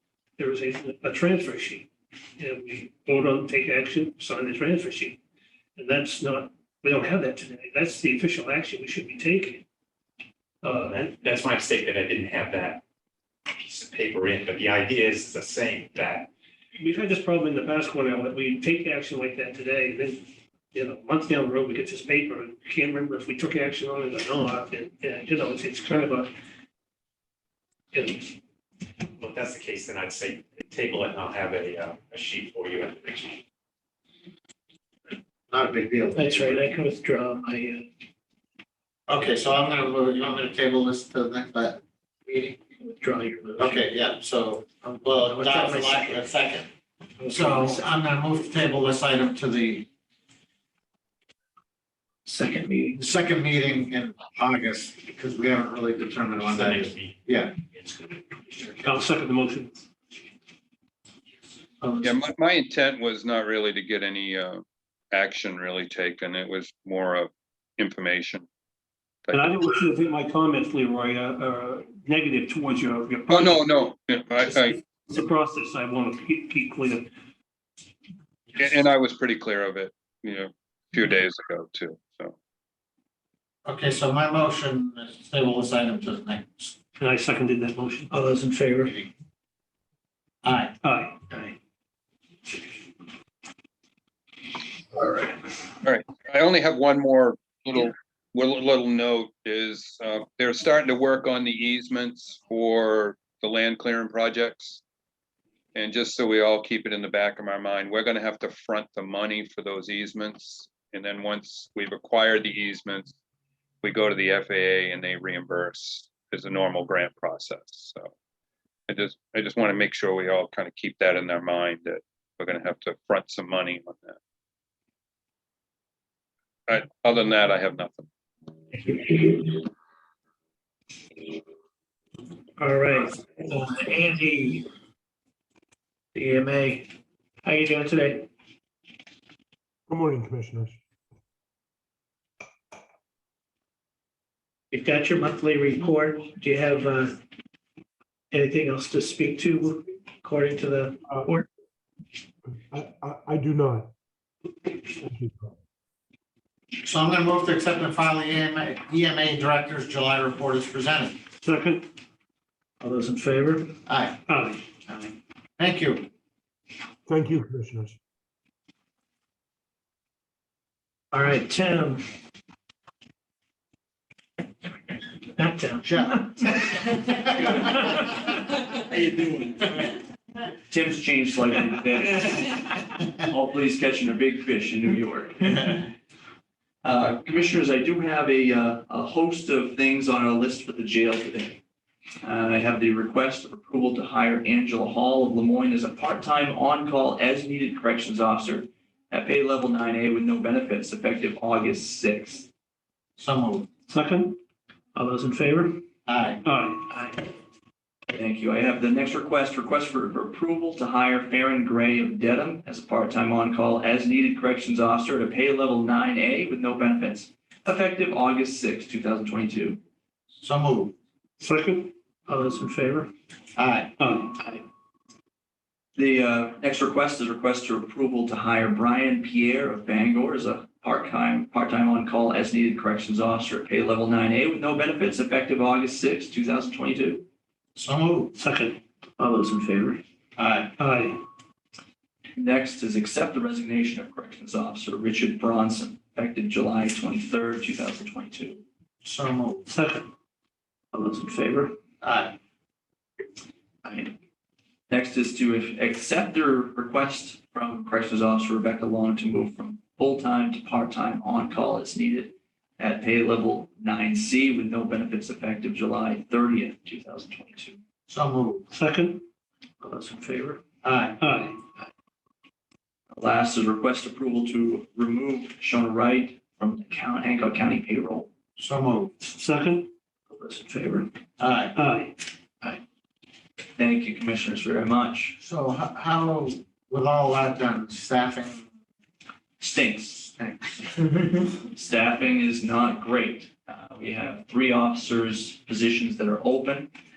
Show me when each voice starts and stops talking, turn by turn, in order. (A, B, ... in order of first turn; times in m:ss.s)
0:00.4-0:05.2 A
0:05.8-0:09.6 A
0:10.6-0:11.1 A
0:10.8-0:12.8 B
0:13.6-0:16.3 B
0:16.8-0:26.3 A
0:27.9-0:28.4 A
0:29.2-0:33.4 B
0:35.5-0:36.6 C
0:36.1-0:37.8 D
0:39.1-0:42.6 C
0:42.8-0:43.8 D
0:43.6-0:46.7 C
0:45.2-0:46.2 D
0:47.2-0:47.9 D
0:47.3-0:49.9 C
0:52.3-0:53.0 D
0:53.0-0:57.5 C
0:56.4-0:59.0 B
0:58.8-0:59.8 A
1:01.8-1:02.2 D
1:02.0-1:08.5 E
1:09.2-1:09.6 E
1:09.3-1:13.7 A
1:13.3-1:14.8 E
1:14.5-1:17.1 A
1:18.6-1:22.4 E
1:23.6-1:26.8 C
1:27.0-1:28.2 A
1:28.1-1:29.0 D
1:28.8-1:29.1 C
1:30.4-1:30.7 C
1:30.8-1:31.2 A
1:31.3-1:31.6 D
1:35.0-1:35.3 D
1:35.8-1:44.8 E
1:45.8-1:53.1 E
1:53.8-1:58.1 E
1:58.9-2:04.2 E
2:06.7-2:08.1 E
2:08.9-2:09.5 D
2:12.6-2:14.6 D
2:16.2-2:16.9 D
2:17.4-2:18.3 D
2:19.9-2:20.8 F
2:24.7-2:27.2 D
2:28.3-2:31.5 D
2:32.7-2:33.9 F
2:35.0-2:35.5 F
2:36.8-2:41.2 C
2:41.4-2:41.8 A
2:42.8-2:43.8 D
2:43.8-2:44.2 C
2:44.3-2:44.6 A
2:45.6-2:46.1 C
2:47.1-2:48.0 F
2:51.1-2:52.0 D
2:55.3-2:57.0 D
2:55.8-2:56.7 C
2:58.6-2:59.9 G
3:00.7-3:05.9 G
3:06.8-3:11.6 G
3:12.2-3:22.5 G
3:23.2-3:23.7 C
3:23.9-3:24.4 A
3:25.0-3:25.8 D
3:26.1-3:26.4 C
3:26.4-3:26.9 A
3:28.1-3:39.8 G
3:40.4-3:41.0 C
3:41.4-3:41.9 A
3:42.3-3:43.1 D
3:43.6-3:44.0 C
3:44.0-3:44.4 A
3:44.4-3:44.6 D
3:46.0-3:57.3 G
3:57.8-3:58.3 C
3:58.4-3:58.8 A
3:59.2-4:00.0 D
4:00.4-4:00.7 C
4:00.8-4:01.2 A
4:02.4-4:08.6 G
4:09.0-4:09.7 C
4:09.7-4:10.1 A
4:10.9-4:11.7 D
4:12.0-4:12.4 C
4:14.9-4:27.8 G
4:28.1-4:28.7 C
4:28.7-4:29.2 A
4:29.8-4:30.6 D
4:30.8-4:31.2 C
4:31.2-4:31.6 A
4:33.1-4:38.3 G
4:38.6-4:39.1 C
4:39.2-4:39.9 A
4:40.4-4:41.1 G
4:41.4-4:41.8 C
4:41.8-4:42.1 A
4:43.8-4:45.4 G
4:45.4-4:48.7 C
4:49.6-4:50.3 G
4:50.3-4:51.1 C
4:51.7-4:56.9 G